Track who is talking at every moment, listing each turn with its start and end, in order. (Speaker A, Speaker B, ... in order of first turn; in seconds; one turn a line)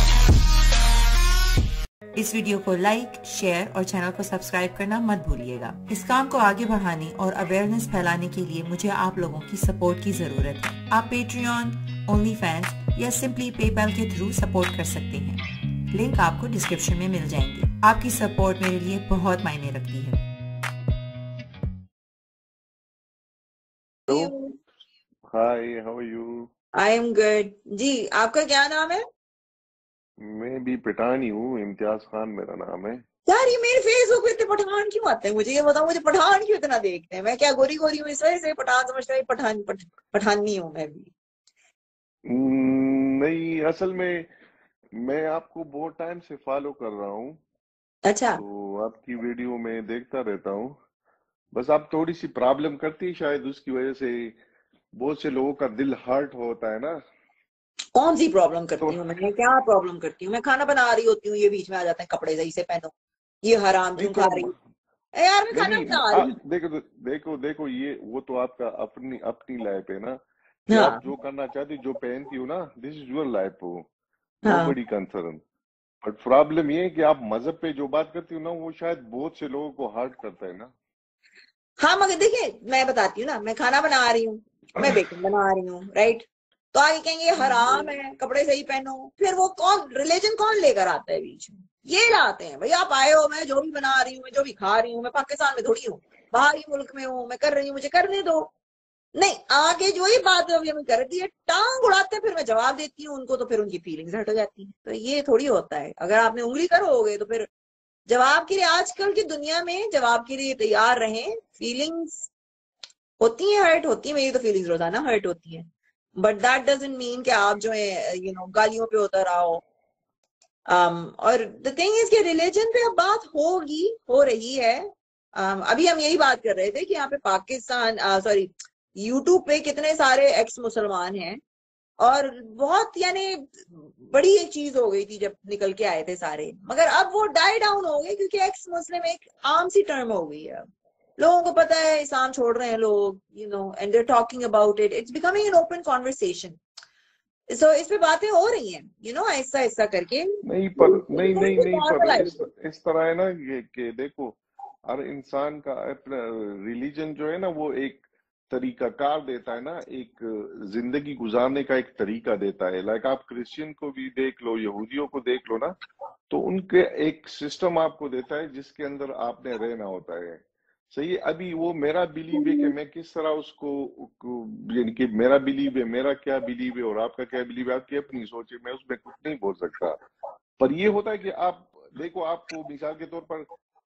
Speaker A: 2.1-20.2
Speaker B: 24.1-24.6
Speaker C: 25.3-26.5
Speaker B: 26.8-29.1
Speaker C: 30.2-33.0
Speaker B: 33.3-41.1
Speaker C: 42.3-44.3
Speaker C: 45.0-47.4
Speaker B: 48.1-48.4
Speaker C: 48.4-50.8
Speaker C: 51.5-54.4
Speaker C: 55.0-57.0
Speaker B: 58.0-62.9
Speaker B: 63.4-64.5
Speaker C: 64.0-64.5
Speaker B: 65.2-66.3
Speaker C: 65.5-70.2
Speaker B: 70.7-71.0
Speaker C: 70.7-73.9
Speaker C: 74.4-75.4
Speaker B: 74.5-74.8
Speaker C: 76.0-80.7
Speaker B: 81.8-98.5
Speaker C: 87.4-87.9
Speaker B: 99.2-107.5
Speaker B: 108.1-112.3
Speaker B: 113.2-119.6
Speaker B: 120.7-131.4
Speaker B: 132.0-140.7
Speaker B: 141.2-146.6
Speaker B: 147.5-152.4
Speaker C: 150.4-165.7
Speaker C: 166.3-180.0
Speaker C: 180.6-183.5